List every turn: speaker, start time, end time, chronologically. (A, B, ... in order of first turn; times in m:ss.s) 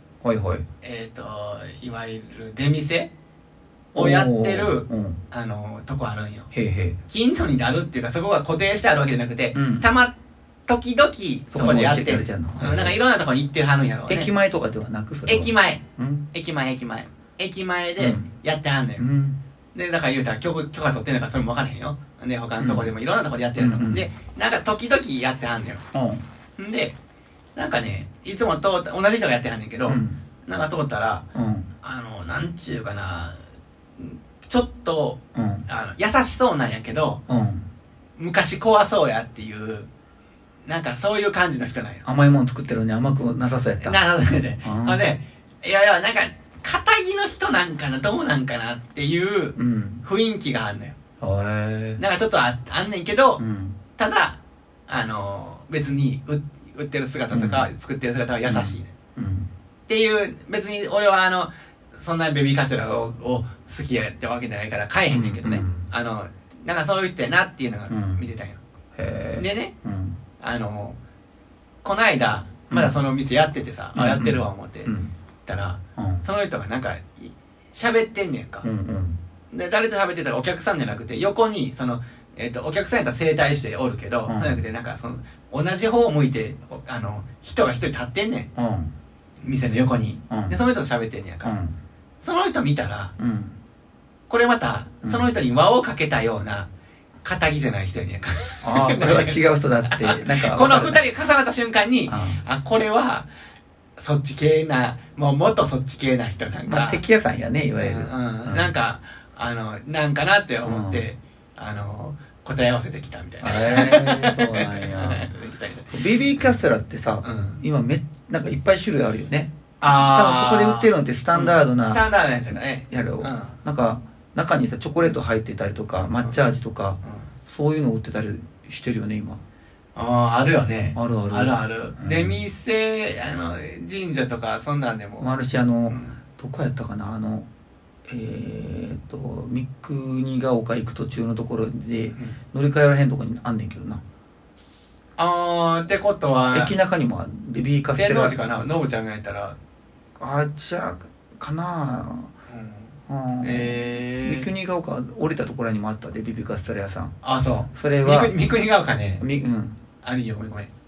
0:00.2-0:00.7 A
0:00.8-0:03.1 B
0:03.9-0:06.5 B
0:04.0-0:05.2 A
0:06.5-0:07.0 A
0:07.1-0:10.1 B
0:09.5-0:09.9 A
0:10.7-0:14.3 B
0:11.5-0:13.0 A
0:14.1-0:16.3 A
0:15.3-0:19.1 B
0:18.0-0:18.3 A
0:19.0-0:19.4 A
0:19.8-0:25.8 B
0:22.6-0:22.9 A
0:23.6-0:24.1 A
0:25.9-0:26.2 A
0:26.6-0:27.0 B
0:27.6-0:31.2 B
0:29.9-0:30.2 A
0:31.3-0:31.7 A
0:31.8-0:33.4 B
0:34.0-0:37.2 B
0:35.4-0:35.7 A
0:37.3-0:37.7 A
0:38.2-0:39.9 B
0:40.7-0:42.0 B
0:42.0-0:44.0 A
0:43.8-0:51.0 B
0:44.6-0:45.0 A
0:49.6-0:50.0 A
0:51.2-0:52.0 A
0:52.0-0:53.4 B
0:53.4-0:53.8 A
0:54.0-0:58.9 B
0:57.3-0:57.7 A
0:58.5-0:59.5 A
0:59.9-1:08.6 B
1:05.1-1:05.9 A
1:07.9-1:08.2 A
1:09.0-1:10.2 A
1:09.4-1:09.7 B
1:10.4-1:11.0 B
1:11.8-1:14.9 B
1:12.7-1:13.0 A
1:13.9-1:15.1 A
1:15.4-1:18.7 B
1:16.0-1:16.2 A
1:18.6-1:19.2 A
1:19.5-1:28.5 B
1:24.3-1:24.6 A
1:28.6-1:28.9 A
1:29.4-1:31.6 B
1:30.3-1:30.6 A
1:31.4-1:31.8 A
1:32.2-1:33.1 B
1:33.2-1:33.6 A
1:34.3-1:36.7 B
1:35.0-1:35.3 A
1:37.2-1:43.3 B
1:38.6-1:41.0 A
1:42.1-1:42.4 A
1:44.0-1:47.0 B
1:46.7-1:48.7 A
1:47.8-1:56.6 B
1:50.6-1:51.0 A
1:53.4-1:55.3 A
1:55.9-2:02.1 A
1:57.2-1:57.6 B
1:59.8-2:03.6 B
2:02.8-2:09.4 A
2:06.0-2:06.4 B
2:07.0-2:07.3 B
2:10.0-2:15.4 B
2:11.0-2:12.4 A
2:15.2-2:17.5 A
2:15.9-2:16.2 B
2:18.1-2:24.0 A
2:25.2-2:26.7 B
2:26.5-2:28.4 A
2:28.0-2:29.6 B
2:30.2-2:32.3 A
2:32.5-2:34.5 B
2:33.1-2:37.2 A
2:37.2-2:39.2 B
2:37.7-2:38.4 A
2:39.2-2:39.8 A
2:40.0-2:40.7 B